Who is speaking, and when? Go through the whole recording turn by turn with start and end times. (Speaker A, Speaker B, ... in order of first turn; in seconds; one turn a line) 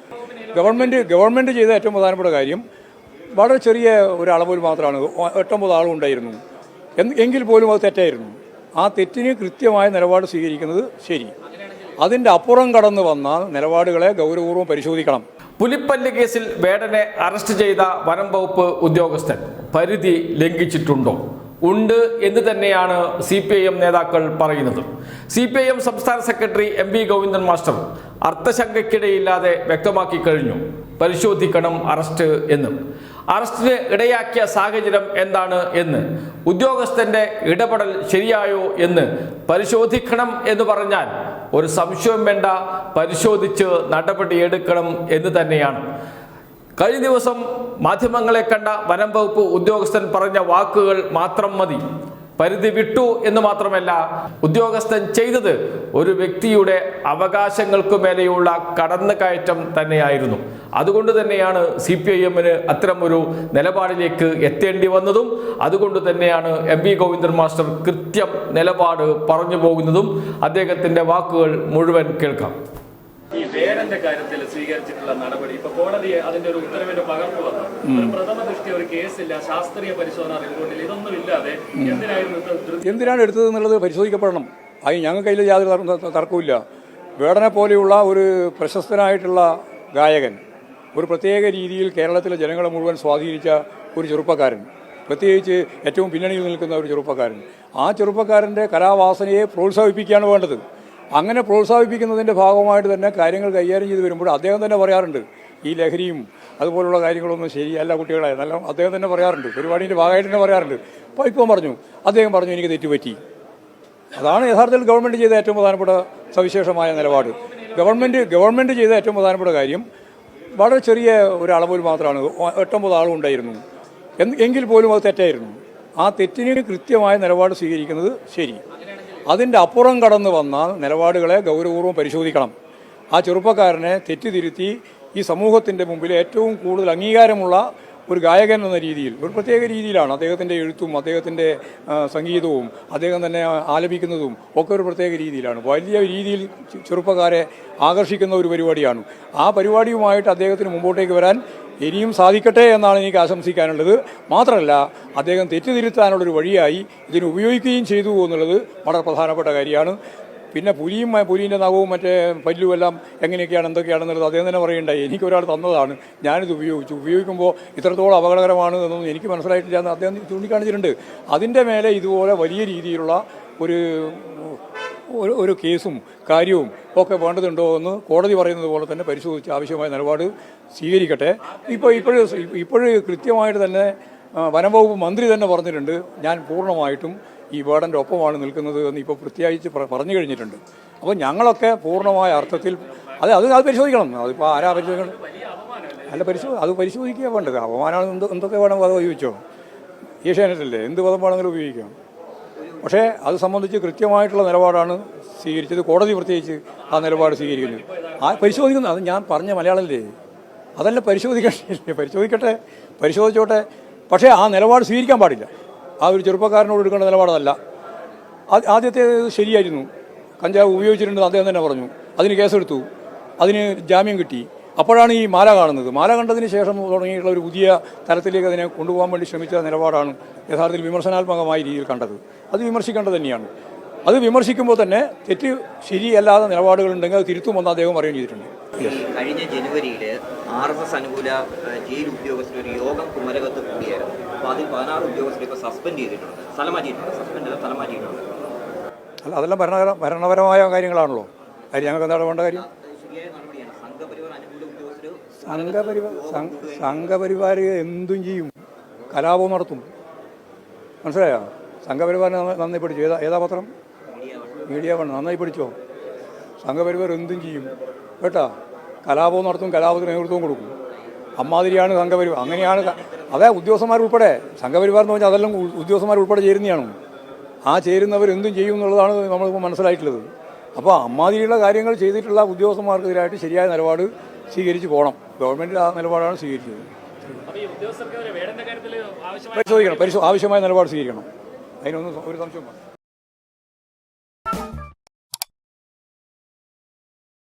Speaker A: 0.2-1.1
Speaker B: 0.5-2.6
Speaker B: 3.3-6.4
Speaker B: 7.0-11.3
Speaker B: 12.0-15.2
Speaker C: 15.6-32.8
Speaker C: 33.3-45.8
Speaker C: 46.8-51.8
Speaker C: 52.4-72.5
Speaker A: 73.3-83.2
Speaker B: 77.8-78.2
Speaker B: 81.8-82.0
Speaker B: 82.8-86.6
Speaker B: 87.2-90.4
Speaker B: 90.9-100.6
Speaker B: 101.2-113.2
Speaker B: 114.1-119.9
Speaker A: 117.5-117.8
Speaker B: 120.5-123.6
Speaker B: 124.2-128.6
Speaker A: 128.8-129.2
Speaker B: 129.2-132.5
Speaker B: 133.1-160.0
Speaker B: 160.5-195.2
Speaker A: 181.4-182.6
Speaker A: 191.9-193.3
Speaker A: 194.4-196.6
Speaker B: 196.1-199.4
Speaker B: 200.2-201.9
Speaker B: 202.8-210.1
Speaker A: 206.8-208.7
Speaker B: 210.8-215.5
Speaker B: 216.0-217.6
Speaker B: 218.5-219.9
Speaker B: 220.4-222.9
Speaker B: 223.4-233.5
Speaker B: 234.1-239.0
Speaker D: 238.8-248.3
Speaker B: 249.2-252.7
Speaker D: 252.5-257.1
Speaker B: 255.4-258.5
Speaker B: 259.1-259.9
Speaker B: 261.0-263.7
Speaker D: 264.1-264.8
Speaker B: 264.7-265.8
Speaker B: 266.6-268.5
Speaker B: 269.1-270.7
Speaker B: 271.4-276.9
Speaker D: 272.3-273.5
Speaker B: 277.7-286.9
Speaker A: 287.5-290.4
Speaker B: 289.5-291.3
Speaker B: 291.8-292.8